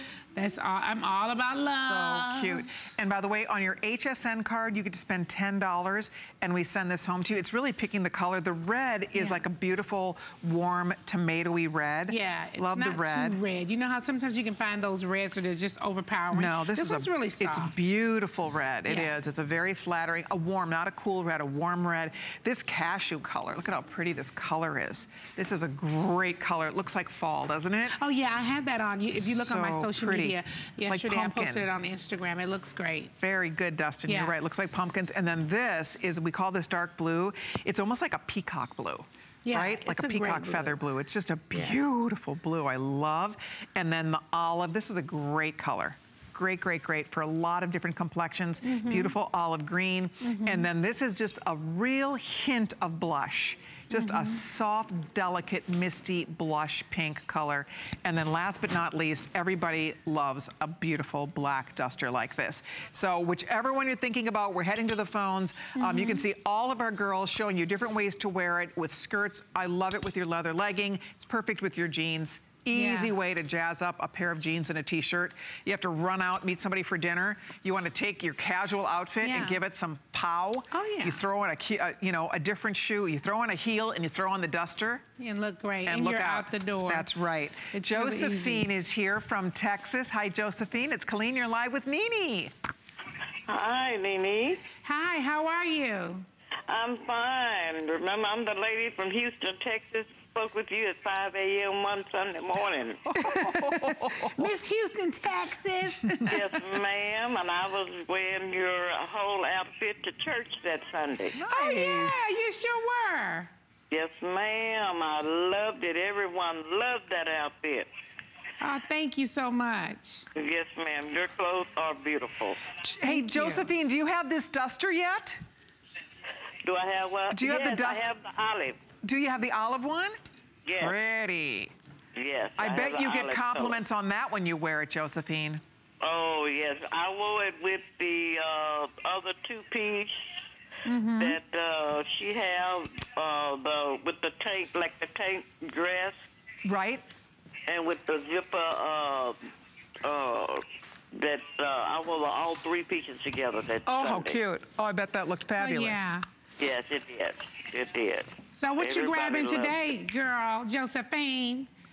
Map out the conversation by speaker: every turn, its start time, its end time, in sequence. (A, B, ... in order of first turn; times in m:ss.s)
0:00.3-0:02.7 A
0:01.4-0:13.4 B
0:09.1-0:09.4 A
0:12.1-0:17.9 A
0:16.3-0:28.0 B
0:18.8-0:19.1 A
0:27.9-0:33.1 A
0:29.1-0:31.6 B
0:33.2-1:25.0 B
0:34.0-0:34.4 A
0:39.4-0:40.8 A
0:41.5-0:41.8 A
0:48.6-0:49.2 A
0:50.2-0:50.7 A
0:53.9-0:54.4 A
1:05.7-1:06.2 A
1:12.7-1:13.1 A
1:19.2-1:19.6 A
1:20.7-1:21.2 A
1:25.2-1:27.1 A
1:25.8-1:32.5 B
1:27.7-1:28.7 A
1:33.5-1:34.6 C
1:34.8-1:36.2 A
1:36.7-1:43.1 C
1:43.1-1:44.5 B
1:43.2-1:46.4 A
1:45.8-1:46.3 B
1:46.2-1:51.4 C
1:51.3-1:52.4 B
1:51.5-1:53.5 A
1:53.9-1:57.9 C
1:58.6-2:00.3 A
2:00.4-2:02.6 C
2:02.8-2:05.4 B
2:03.0-2:03.7 A
2:06.6-2:08.8 C
2:07.3-2:08.1 B
2:09.0-2:10.1 B
2:10.6-2:11.0 C
2:10.8-2:11.7 B
2:12.2-2:13.8 C
2:12.6-2:15.6 B
2:16.0-2:20.4 C
2:20.8-2:21.4 A
2:21.2-2:26.2 C
2:26.6-2:27.0 B
2:27.7-2:29.4 C
2:30.0-2:30.6 C
2:31.1-2:34.4 C
2:33.8-2:36.1 B
2:35.6-2:36.2 A
2:36.6-2:39.8 C
2:38.5-2:41.7 A